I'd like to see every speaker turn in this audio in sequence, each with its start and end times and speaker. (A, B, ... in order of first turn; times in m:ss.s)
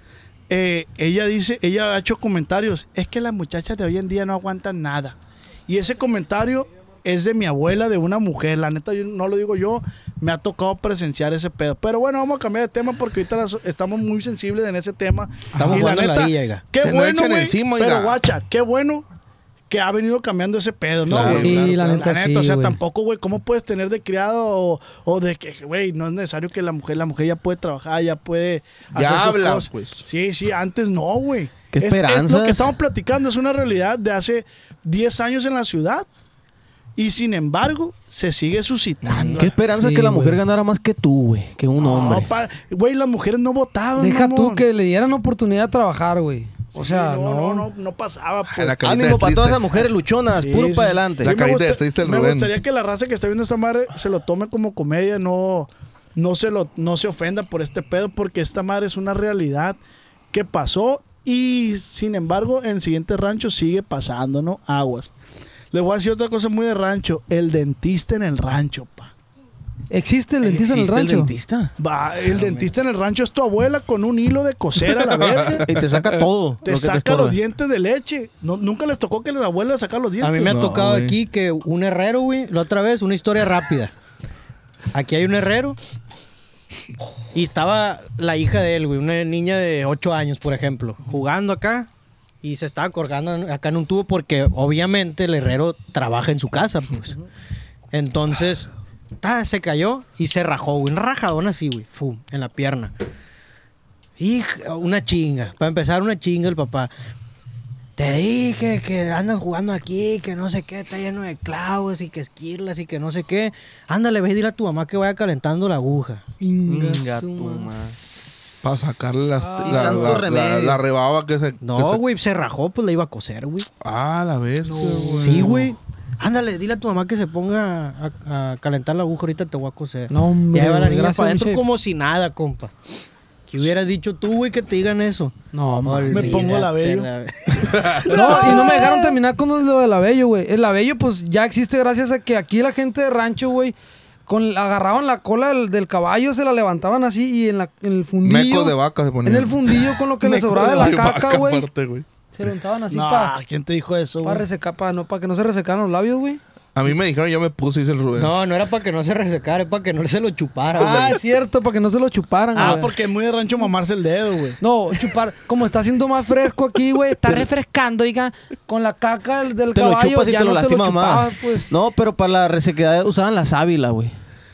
0:00.5-0:19.0 A
0:15.5-0:16.6 B
0:16.8-0:18.2 C
0:19.7-0:36.1 A
0:21.1-0:21.6 C
0:21.3-0:22.8 D
0:28.9-0:30.0 C
0:31.7-0:32.7 E
0:37.0-0:39.6 A
0:39.1-0:39.5 C
0:39.3-0:42.3 E
0:39.6-0:40.4 D
0:41.8-0:44.6 A
0:44.0-0:47.7 D
0:46.7-0:48.8 A
0:48.5-0:49.8 C
0:48.8-0:51.3 E
0:50.3-0:59.8 A
0:51.2-0:52.5 C
1:00.3-1:05.1 A
1:05.7-1:09.1 A
1:09.9-1:11.3 D
1:10.4-1:11.7 E
1:11.8-1:15.6 A
1:14.9-1:16.2 C
1:15.6-1:17.4 E
1:16.6-1:20.8 A
1:20.2-1:23.9 B
1:20.5-1:21.2 C
1:24.9-1:25.8 B
1:27.3-1:31.9 B
1:32.4-1:37.2 B
1:37.9-1:38.7 B
1:39.2-1:42.9 B
1:44.2-1:46.9 B
1:48.0-1:56.3 B
1:56.4-1:58.3 D
1:56.6-1:58.0 E
1:58.6-2:02.0 C
1:59.4-2:00.0 D
1:59.6-2:00.8 E
2:01.6-2:03.7 B
2:03.8-2:05.7 C
2:04.7-2:05.0 A
2:05.1-2:12.7 B
2:10.1-2:11.6 D
2:13.5-2:18.1 B
2:15.5-2:16.5 D
2:16.1-2:17.1 A
2:17.6-2:18.2 C
2:17.9-2:19.0 A
2:18.0-2:23.7 D
2:24.2-2:31.7 D
2:28.2-2:32.0 C
2:32.3-2:33.3 D
2:32.9-2:34.4 A
2:34.2-2:36.4 D
2:36.7-2:38.3 C
2:38.2-2:41.2 B
2:40.7-2:42.9 D
2:42.5-2:44.6 A
2:44.6-2:51.7 D
2:49.7-2:54.1 E